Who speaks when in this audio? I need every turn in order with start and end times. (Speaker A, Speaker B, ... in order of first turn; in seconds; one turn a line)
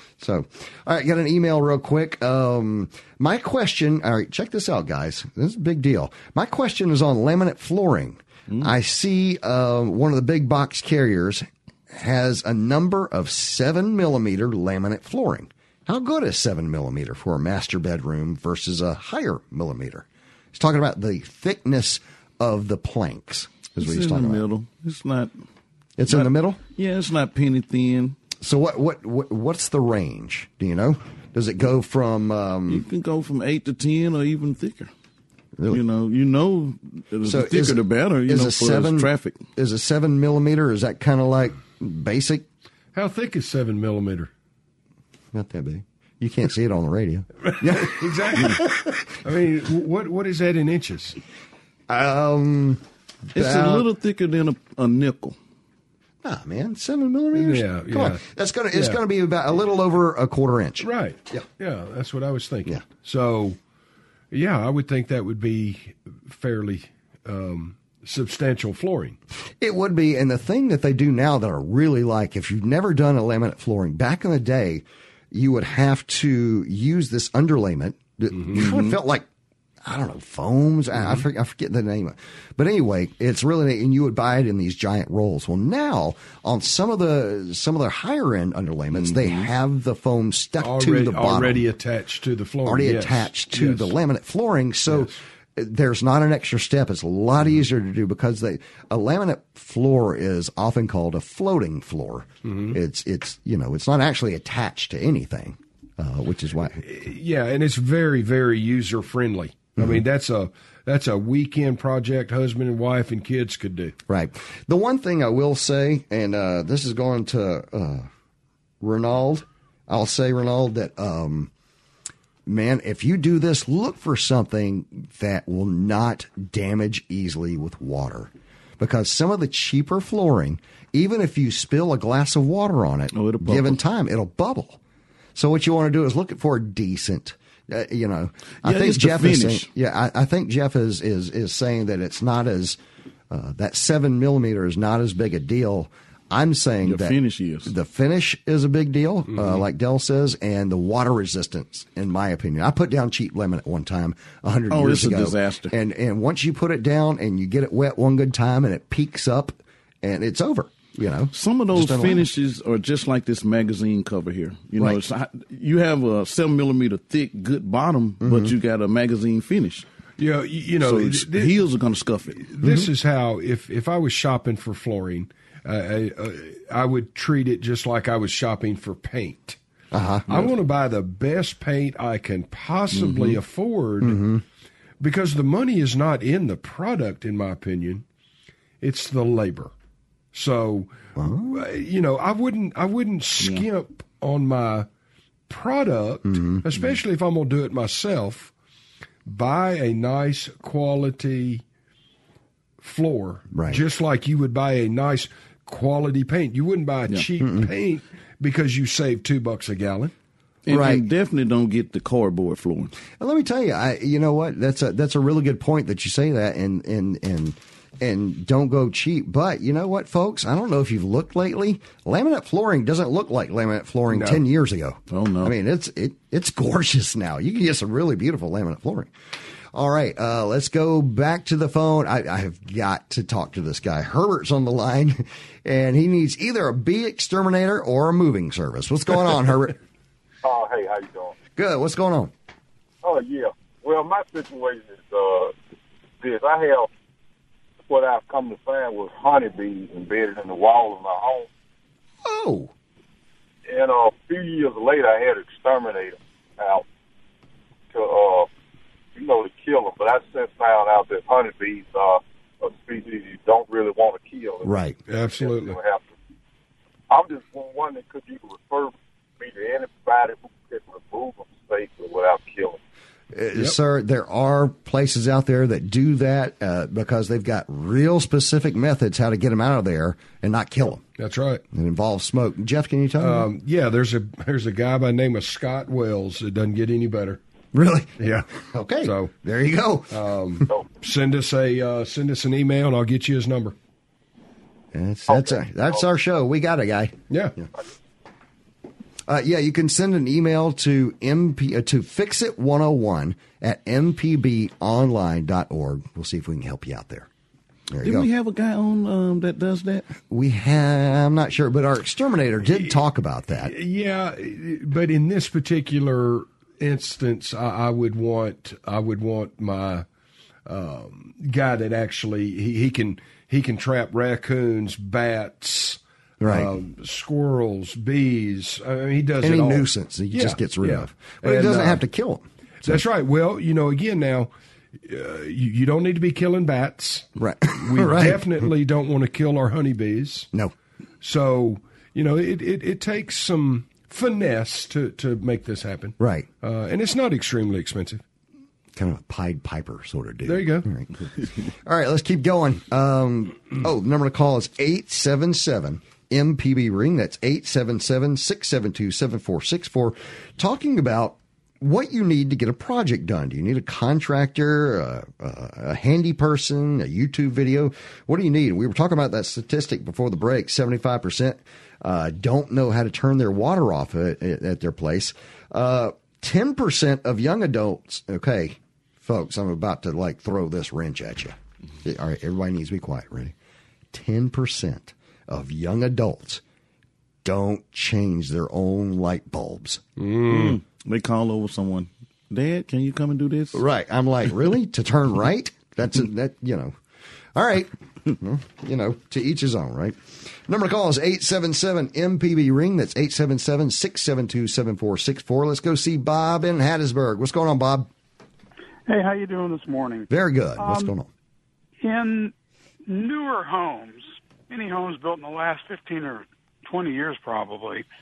Speaker A: 0.2-24.4
Speaker B: 23.8-25.4
Speaker A: 26.0-26.6
Speaker B: 26.1-28.2
Speaker A: 28.4-32.8
Speaker B: 32.7-34.9
Speaker A: 35.6-35.8
Speaker B: 35.7-39.5
Speaker A: 37.2-42.5
Speaker C: 42.9-44.3
Speaker A: 45.3-49.0
Speaker C: 47.5-48.7
Speaker C: 49.2-51.2
Speaker A: 51.9-52.8
Speaker A: 53.3-53.9
Speaker B: 53.3-55.4
Speaker A: 56.2-61.5
Speaker C: 57.3-58.2
Speaker C: 60.8-63.6
Speaker C: 64.3-69.2
Speaker A: 69.6-79.3
Speaker B: 78.5-79.0
Speaker A: 79.8-91.6
Speaker B: 88.9-89.5
Speaker C: 90.6-93.9
Speaker A: 92.7-106.8
Speaker C: 102.4-102.8
Speaker C: 106.8-113.9
Speaker A: 109.8-110.0
Speaker A: 114.1-118.1
Speaker A: 118.8-121.5
Speaker A: 122.5-134.8
Speaker B: 133.1-133.8
Speaker A: 135.3-142.8
Speaker B: 138.6-139.7
Speaker A: 143.3-162.2
Speaker B: 146.8-147.7
Speaker B: 154.7-155.7
Speaker B: 161.3-169.8
Speaker A: 168.2-168.5
Speaker C: 170.2-171.6
Speaker B: 170.8-172.5
Speaker C: 172.4-179.6
Speaker A: 172.6-172.9
Speaker A: 179.9-180.3
Speaker B: 180.3-180.5
Speaker C: 180.3-184.2
Speaker B: 182.9-183.4
Speaker A: 184.0-184.4
Speaker C: 185.0-188.0
Speaker C: 188.8-189.7
Speaker C: 190.3-190.9
Speaker A: 191.2-191.6
Speaker C: 191.5-194.9
Speaker B: 193.4-193.6
Speaker C: 195.5-198.5
Speaker A: 196.2-196.7
Speaker C: 199.2-201.6
Speaker C: 202.8-210.1
Speaker A: 203.5-203.8
Speaker A: 207.4-207.7
Speaker B: 210.7-212.9
Speaker A: 210.7-211.0
Speaker A: 213.2-229.1
Speaker C: 224.1-224.4
Speaker B: 225.1-225.5
Speaker A: 229.7-239.8
Speaker D: 240.4-241.3
Speaker A: 241.6-242.3
Speaker D: 243.0-245.5
Speaker D: 246.2-246.9
Speaker D: 247.8-251.5
Speaker A: 252.2-252.7
Speaker D: 253.7-256.9
Speaker D: 257.9-258.5
Speaker D: 259.1-264.8
Speaker A: 264.6-265.0
Speaker C: 265.1-265.8
Speaker D: 265.3-266.1
Speaker D: 267.1-272.8
Speaker A: 273.3-281.0
Speaker C: 281.2-281.6
Speaker A: 281.7-283.5
Speaker C: 283.2-287.4
Speaker A: 287.7-290.1
Speaker C: 288.2-288.4
Speaker C: 289.0-289.3
Speaker C: 290.1-293.7
Speaker A: 294.9-297.7
Speaker C: 297.3-297.5
Speaker A: 299.3-307.3
Speaker A: 307.9-308.3
Speaker B: 308.0-310.1
Speaker A: 310.3-313.7
Speaker C: 313.6-320.0
Speaker C: 320.6-332.0
Speaker A: 326.4-326.7
Speaker A: 329.4-333.0
Speaker C: 332.8-334.5
Speaker C: 335.0-337.3
Speaker A: 337.4-338.7
Speaker C: 337.8-340.5
Speaker C: 341.2-348.2
Speaker A: 346.2-346.5
Speaker A: 348.9-351.1
Speaker C: 350.4-350.9
Speaker A: 351.8-383.5
Speaker A: 384.1-386.6
Speaker A: 387.4-390.0
Speaker C: 390.2-390.8
Speaker B: 390.4-393.8
Speaker A: 393.7-396.9
Speaker A: 397.5-408.1
Speaker E: 409.1-411.1
Speaker A: 410.3-411.3
Speaker E: 412.0-412.5
Speaker E: 413.1-418.0